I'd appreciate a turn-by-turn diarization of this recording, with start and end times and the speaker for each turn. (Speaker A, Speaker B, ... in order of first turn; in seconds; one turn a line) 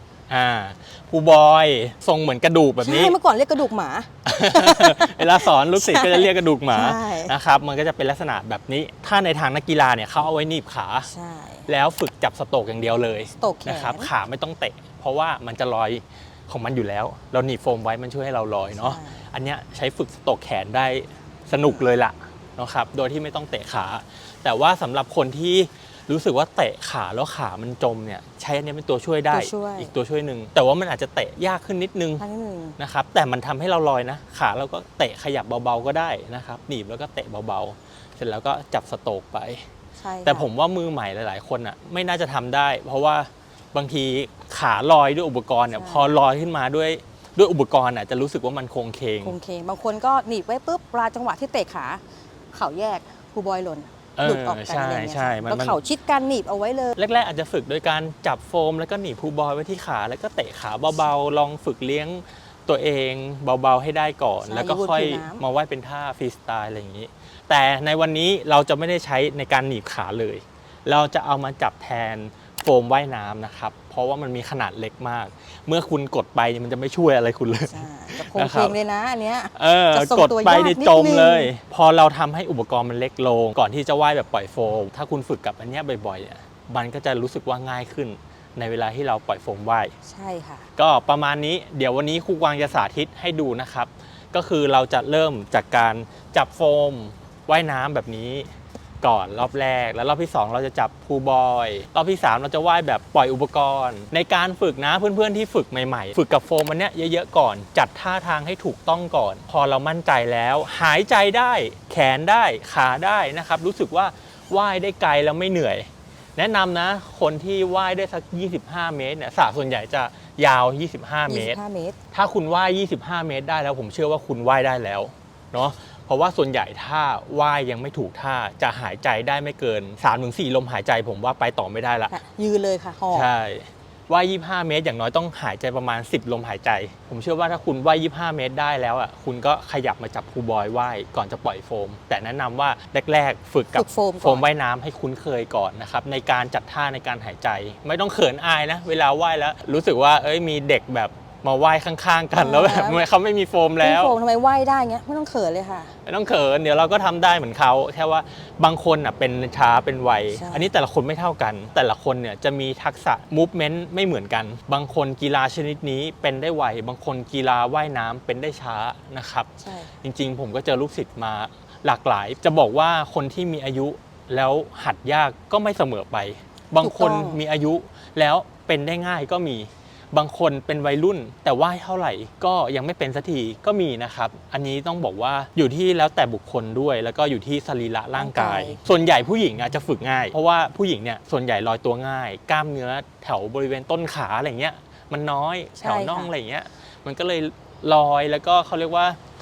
Speaker A: 0.3-3.1
Speaker B: 2.8-7.3
Speaker A: 4.2-11.1
Speaker B: 11.1-11.7
Speaker A: 11.7-32.2
Speaker B: 13.4-14.1
Speaker B: 18.8-19.2
Speaker B: 29.3-29.9
Speaker B: 32.2-32.8
Speaker A: 32.8-39.6
Speaker B: 40.0-40.5
Speaker A: 40.2-49.3
Speaker B: 45.7-46.1
Speaker B: 49.2-52.0
Speaker B: 52.5-57.0
Speaker A: 54.2-55.8
Speaker A: 57.0-78.8
Speaker B: 64.4-65.4
Speaker B: 77.7-81.5
Speaker A: 79.5-89.9
Speaker B: 90.0-90.7
Speaker A: 90.8-98.5
Speaker A: 99.0-121.6
Speaker B: 121.3-122.0
Speaker A: 122.1-132.2
Speaker B: 132.1-133.3
Speaker A: 133.1-154.2
Speaker B: 143.7-144.4
Speaker B: 152.3-153.0
Speaker B: 153.8-155.9
Speaker A: 156.0-169.5
Speaker B: 160.3-160.7
Speaker B: 169.6-169.9
Speaker A: 170.0-199.2
Speaker B: 176.8-177.4
Speaker B: 188.2-188.8
Speaker B: 195.8-196.3